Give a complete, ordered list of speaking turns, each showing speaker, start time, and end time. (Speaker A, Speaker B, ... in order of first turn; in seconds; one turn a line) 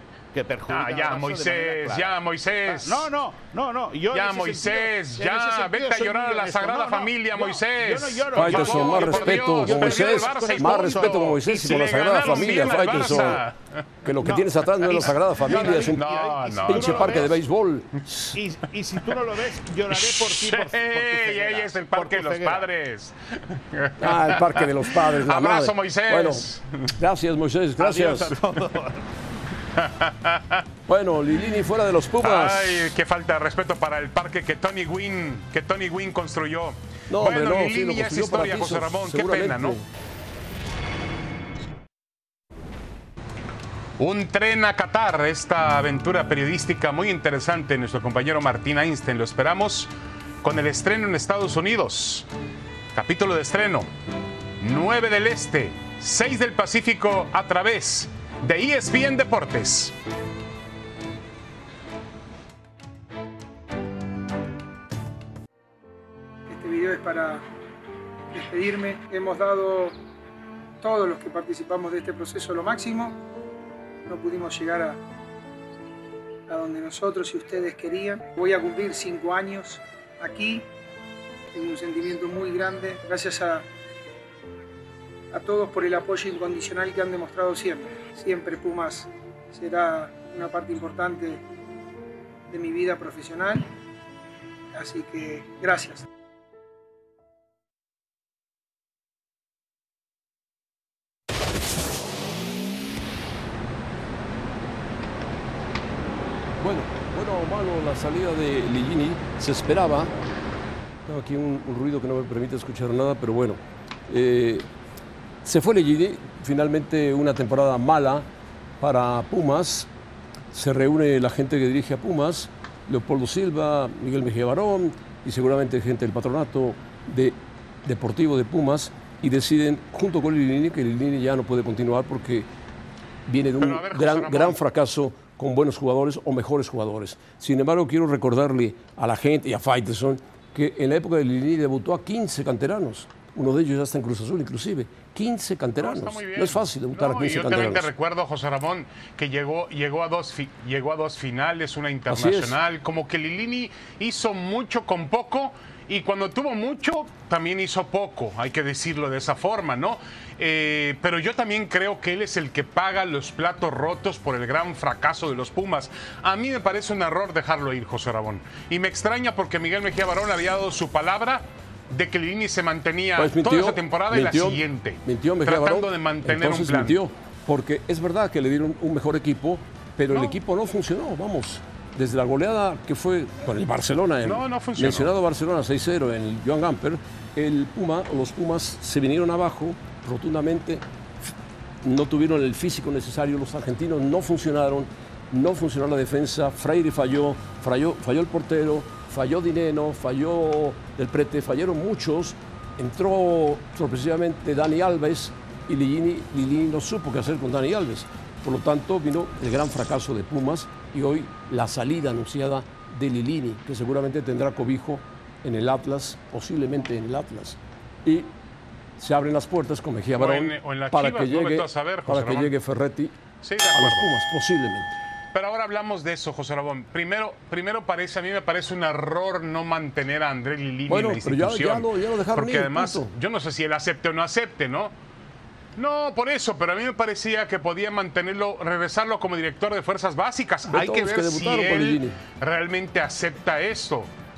Speaker A: 0.3-2.1
Speaker B: 0.7-3.1
Speaker A: 2.7-13.3
Speaker B: 4.1-13.9
Speaker C: 8.3-13.4
Speaker C: 14.0-16.0
Speaker A: 14.2-17.3
Speaker B: 14.9-17.3
Speaker C: 16.6-18.3
Speaker A: 18.3-22.6
Speaker B: 19.9-26.9
Speaker C: 24.0-28.4
Speaker A: 27.8-29.0
Speaker B: 29.7-30.6
Speaker C: 30.9-32.9
Speaker B: 32.2-39.8
Speaker C: 37.1-39.8
Speaker B: 44.0-49.9
Speaker B: 50.4-52.3
Speaker B: 52.9-53.9
Speaker B: 54.6-60.0
Speaker D: 66.5-67.4
Speaker D: 68.3-69.9
Speaker D: 70.8-73.2
Speaker D: 74.0-75.0
Speaker D: 76.5-80.6
Speaker D: 81.5-83.7
Speaker D: 85.3-91.4
Speaker D: 92.5-93.7
Speaker D: 94.7-96.0
Speaker C: 106.6-110.1
Speaker C: 111.0-114.7
Speaker C: 115.4-118.2
Speaker C: 118.8-119.9
Speaker C: 120.5-132.5
Speaker C: 133.2-147.9
Speaker B: 133.6-134.6
Speaker B: 145.8-177.0
Speaker C: 152.1-152.6
Speaker C: 173.2-191.3
Speaker B: 180.1-180.4
Speaker B: 184.2-185.1
Speaker C: 191.8-218.3
Speaker C: 219.0-223.2
Speaker B: 220.2-222.5
Speaker B: 223.4-224.0
Speaker C: 223.7-224.9
Speaker B: 225.3-234.9
Speaker C: 230.9-233.1
Speaker B: 235.8-244.1
Speaker C: 240.7-242.2